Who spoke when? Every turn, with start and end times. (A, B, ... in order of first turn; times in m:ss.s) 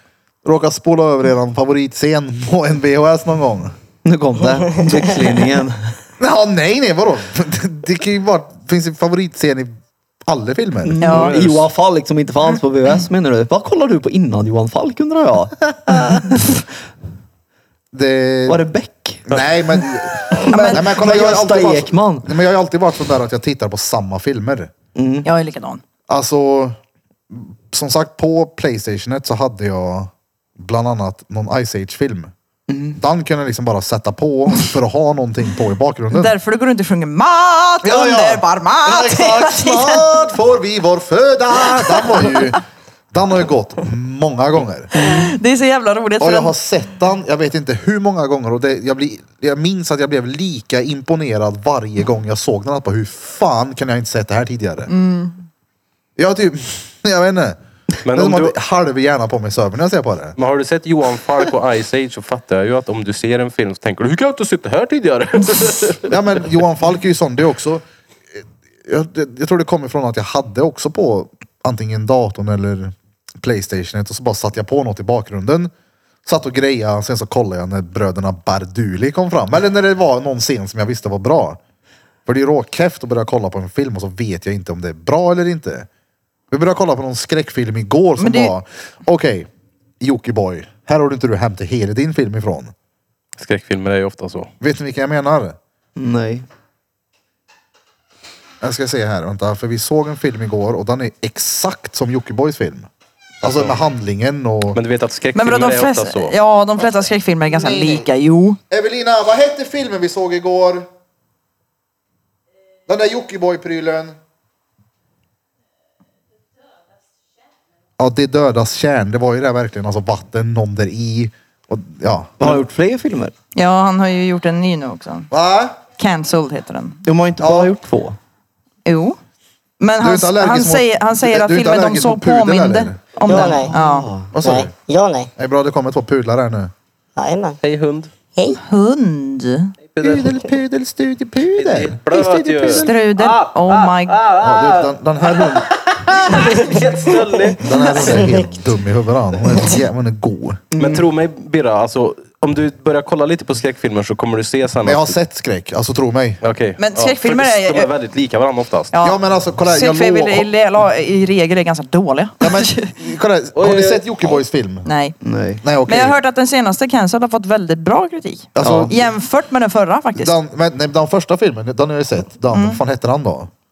0:00.4-0:03.7 A
0:04.0-0:06.0 B
0:06.2-0:11.0 A
0:10.8-0:16.6 B
0:11.0-0:11.4 C
0:11.0-0:11.7 D
0:17.9-0:18.6 A
0:18.5-0:19.3 B
0:19.3-0:24.7 A
0:20.3-0:22.3 B
0:20.5-0:21.1 C
0:24.9-0:25.3 B
0:25.2-0:25.8 C
0:26.1-0:26.8 A
0:27.3-0:32.3 A
0:32.7-0:33.0 B
0:33.0-0:36.3 A
0:36.1-0:40.1 C
0:37.8-0:42.6 A
0:41.7-0:42.5 C
0:43.1-0:45.2 A
0:44.9-0:46.5 C
0:46.2-0:54.9 A
0:54.9-0:55.4 C
0:56.2-1:00.4 A
0:58.0-0:58.5 D
1:00.4-1:06.1 D
1:06.1-1:07.8 A
1:08.4-1:15.7 A
1:16.2-1:21.6 A
1:22.2-1:25.9 A
1:26.5-1:29.5 A
1:28.2-1:28.5 C
1:30.0-1:32.7 A
1:33.4-1:34.5 D
1:34.6-1:35.6 A
1:36.0-1:36.4 B
1:38.6-1:42.9 A
1:43.4-1:44.8 A
1:43.4-1:43.7 D
1:44.7-1:46.4 D
1:45.3-1:48.6 C
1:47.6-1:48.0 A
1:48.7-1:50.8 A
1:52.9-1:54.1 A
1:58.0-2:02.6 A
2:02.4-2:03.3 B
2:03.5-2:05.3 C
2:05.3-2:05.8 A
2:05.9-2:07.0 C
2:07.0-2:08.2 B
2:07.4-2:07.7 A
2:08.8-2:09.2 C
2:09.8-2:14.1 C
2:10.0-2:13.2 A
2:13.2-2:13.7 E
2:13.7-2:14.3 B
2:14.3-2:14.7 A
2:14.4-2:15.3 E
2:15.4-2:16.7 A
2:17.2-2:17.6 E
2:17.6-2:18.1 D
2:18.4-2:18.6 E
2:18.6-2:19.7 C
2:19.9-2:20.4 D
2:20.0-2:22.9 A
2:21.6-2:28.3 D
2:22.8-2:24.2 C
2:24.4-2:25.8 A
2:27.6-2:30.6 A
2:28.0-2:28.4 E
2:30.7-2:31.1 B
2:30.8-2:35.2 D
2:34.8-2:36.4 A
2:36.4-2:38.9 D
2:36.8-2:37.9 C
2:38.9-2:42.9 C
2:39.0-2:40.5 A
2:42.4-2:44.9 A
2:43.5-2:44.0 D
2:44.8-2:45.2 C
2:45.2-2:45.6 B
2:45.6-2:46.2 A
2:45.8-2:50.3 C
2:48.6-2:48.9 A
2:48.6-2:49.0 B
2:50.2-2:53.5 A
2:52.5-2:52.8 C